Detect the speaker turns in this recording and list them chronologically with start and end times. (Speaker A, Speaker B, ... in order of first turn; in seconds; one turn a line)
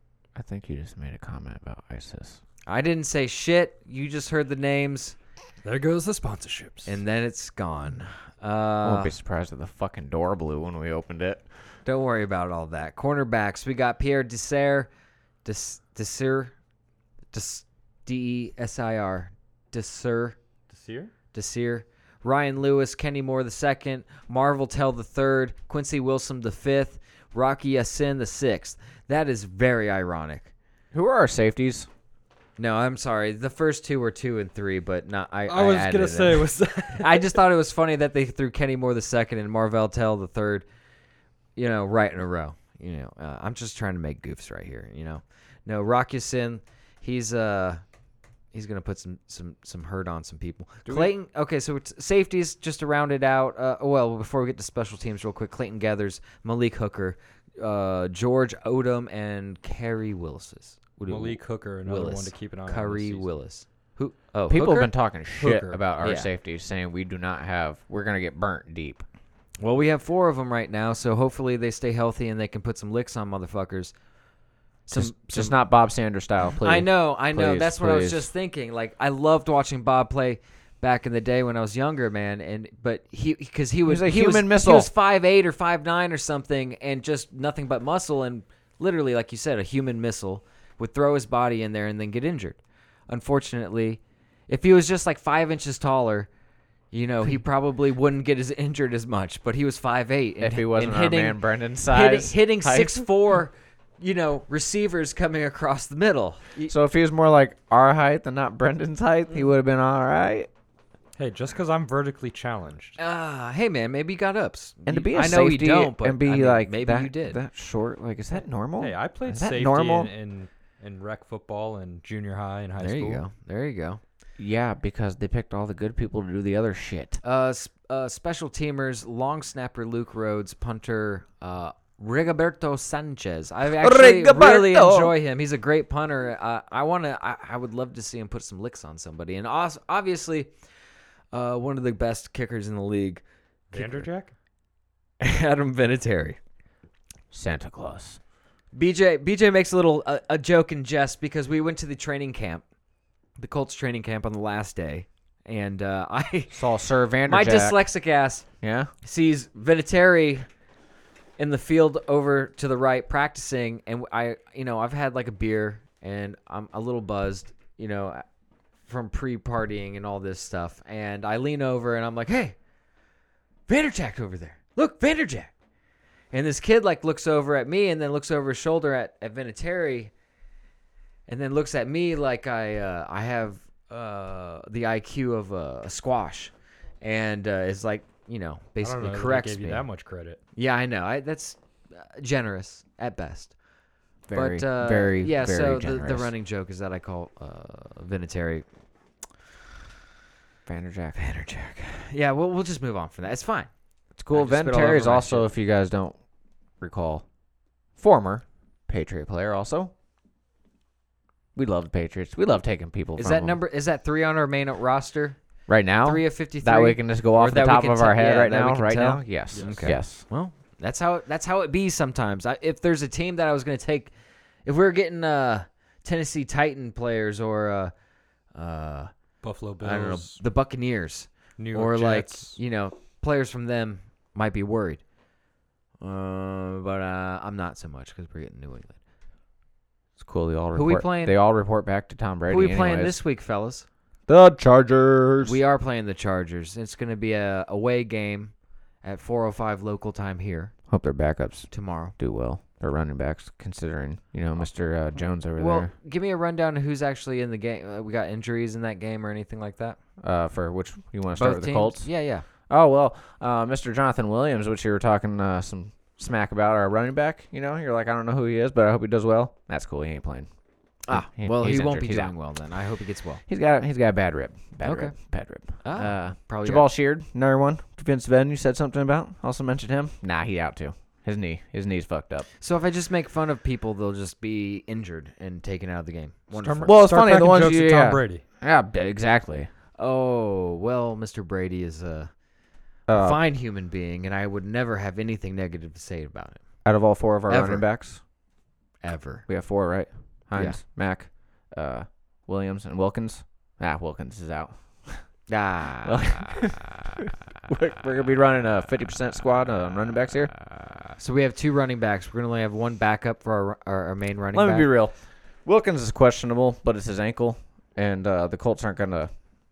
Speaker A: 0.3-2.4
Speaker B: 2.7-5.2
Speaker C: 5.6-7.0
Speaker B: 6.8-9.2
Speaker A: 8.8-11.5
Speaker B: 11.8-14.9
Speaker B: 15.4-16.5
Speaker B: 17.3-20.4
Speaker C: 20.7-21.1
Speaker B: 21.3-30.5
Speaker A: 30.9-31.9
Speaker B: 32.6-40.6
Speaker C: 35.5-37.3
Speaker B: 41.5-47.8
Speaker B: 48.5-64.9
Speaker A: 50.9-51.1
Speaker C: 61.1-63.3
Speaker A: 64.5-69.0
Speaker C: 65.4-65.8
Speaker B: 66.0-66.3
Speaker B: 69.6-73.9
Speaker B: 74.9-75.5
Speaker A: 74.9-78.3
Speaker B: 76.6-96.3
Speaker A: 83.9-84.9
Speaker B: 96.9-106.7
Speaker A: 100.4-103.1
Speaker A: 106.7-110.5
Speaker C: 111.2-113.0
Speaker B: 113.0-117.4
Speaker A: 114.8-120.1
Speaker C: 118.8-123.2
Speaker B: 122.8-124.0
Speaker A: 124.4-127.2
Speaker B: 127.2-140.5
Speaker A: 133.8-135.1
Speaker B: 141.3-144.1
Speaker C: 143.7-144.3
Speaker B: 145.2-146.4
Speaker A: 147.3-148.2
Speaker B: 148.7-152.6
Speaker B: 153.4-156.7
Speaker A: 156.5-157.8
Speaker B: 157.2-158.4
Speaker A: 158.6-158.9
Speaker B: 159.0-160.4
Speaker B: 161.4-168.2
Speaker B: 168.8-172.6
Speaker B: 173.7-175.5
Speaker B: 176.3-180.1
Speaker B: 181.3-189.8
Speaker C: 188.8-190.4
Speaker B: 190.6-193.5
Speaker A: 194.3-196.3
Speaker B: 194.3-198.7
Speaker A: 200.7-201.2
Speaker B: 201.2-203.7
Speaker A: 204.2-206.2
Speaker B: 204.3-205.5
Speaker A: 206.8-207.2
Speaker A: 208.0-209.9
Speaker A: 211.5-213.6
Speaker B: 213.2-215.4
Speaker A: 215.7-220.2
Speaker B: 216.0-224.1
Speaker C: 219.5-220.0
Speaker B: 224.7-227.9
Speaker B: 228.5-229.1
Speaker C: 229.4-230.4
Speaker B: 229.8-235.0
Speaker C: 231.6-232.6
Speaker B: 236.0-239.0
Speaker A: 240.2-243.2
Speaker B: 240.7-241.3
Speaker B: 242.5-243.8
Speaker A: 244.3-245.6
Speaker B: 245.4-250.7
Speaker A: 250.9-255.9
Speaker B: 251.7-252.1
Speaker B: 255.6-260.0
Speaker A: 260.2-262.1
Speaker B: 261.4-262.4
Speaker A: 262.7-270.5
Speaker B: 271.0-273.4
Speaker A: 271.1-272.3
Speaker A: 273.5-282.5
Speaker B: 274.8-275.1
Speaker B: 275.8-276.9
Speaker B: 282.6-287.0
Speaker C: 286.5-288.4
Speaker A: 286.8-289.7
Speaker B: 290.0-292.3
Speaker A: 293.1-293.4
Speaker B: 293.1-296.6
Speaker A: 296.8-298.2
Speaker B: 297.5-297.9
Speaker B: 299.0-299.4
Speaker A: 299.5-305.2
Speaker B: 305.5-306.5
Speaker A: 306.0-310.5
Speaker B: 311.2-314.9
Speaker A: 314.5-319.3